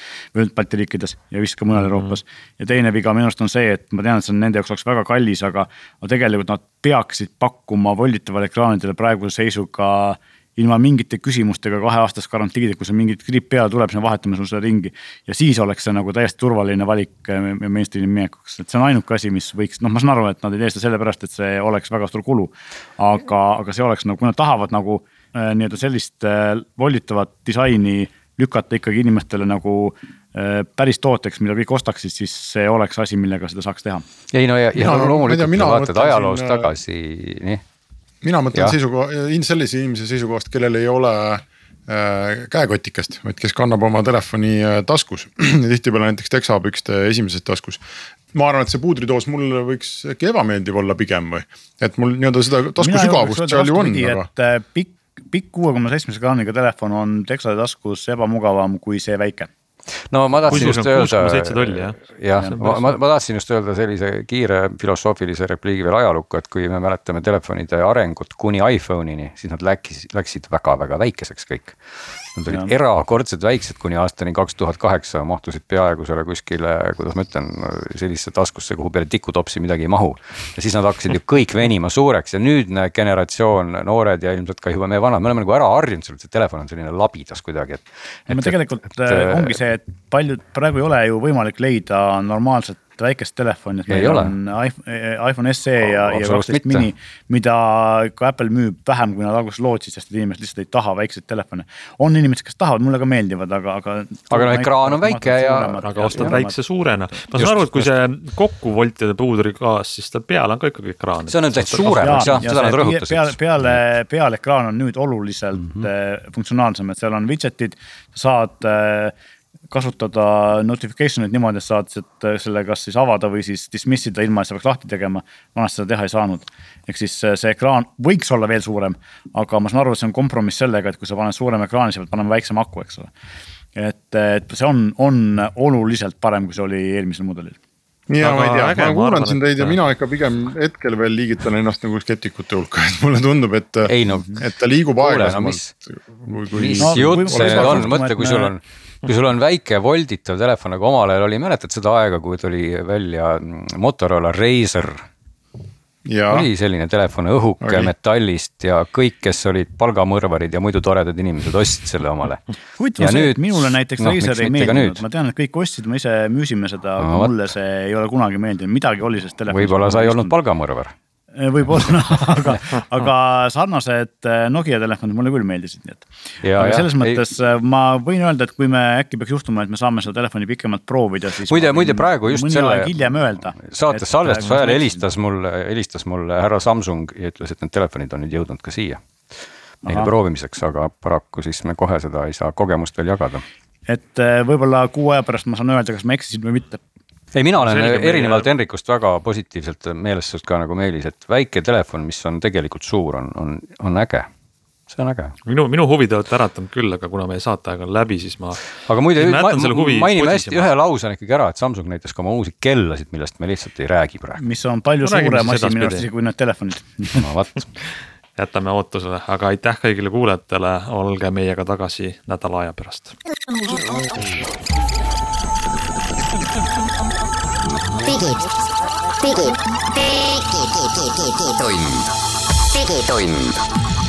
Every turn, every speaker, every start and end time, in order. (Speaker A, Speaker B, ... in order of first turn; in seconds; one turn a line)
Speaker A: 0.3-34.0
Speaker B: 34.3-37.6
Speaker C: 34.8-36.7
Speaker C: 38.2-54.3
Speaker A: 52.8-59.5
Speaker B: 60.1-71.8
Speaker D: 60.5-62.8
Speaker A: 62.4-62.8
Speaker B: 72.3-89.6
Speaker A: 88.3-106.6
Speaker B: 93.9-94.3
Speaker B: 95.8-96.9
Speaker B: 104.3-106.4
Speaker D: 105.8-112.4
Speaker B: 107.3-107.9
Speaker B: 111.3-113.8
Speaker A: 112.0-119.1
Speaker A: 119.7-133.1
Speaker A: 133.8-137.6
Speaker C: 138.1-147.9
Speaker D: 138.2-139.8
Speaker B: 143.8-144.4
Speaker B: 145.0-145.7
Speaker B: 146.4-155.1
Speaker A: 146.8-148.5
Speaker C: 156.1-156.5
Speaker B: 156.3-162.4
Speaker C: 157.6-157.9
Speaker A: 162.8-170.4
Speaker B: 163.0-165.0
Speaker B: 167.0-167.3
Speaker B: 169.5-170.9
Speaker A: 171.3-185.1
Speaker B: 176.4-177.2
Speaker B: 181.5-182.9
Speaker B: 183.6-189.0
Speaker A: 189.8-190.1
Speaker B: 189.8-193.4
Speaker A: 193.9-196.8
Speaker B: 197.3-204.3
Speaker D: 197.6-198.5
Speaker B: 204.9-205.3
Speaker D: 205.4-210.7
Speaker B: 208.8-214.4
Speaker A: 214.4-217.2
Speaker D: 215.0-216.1
Speaker B: 217.1-217.7
Speaker D: 218.4-223.1
Speaker E: 228.1-228.3
Speaker E: 229.2-229.6
Speaker E: 230.3-232.1
Speaker E: 232.7-233.6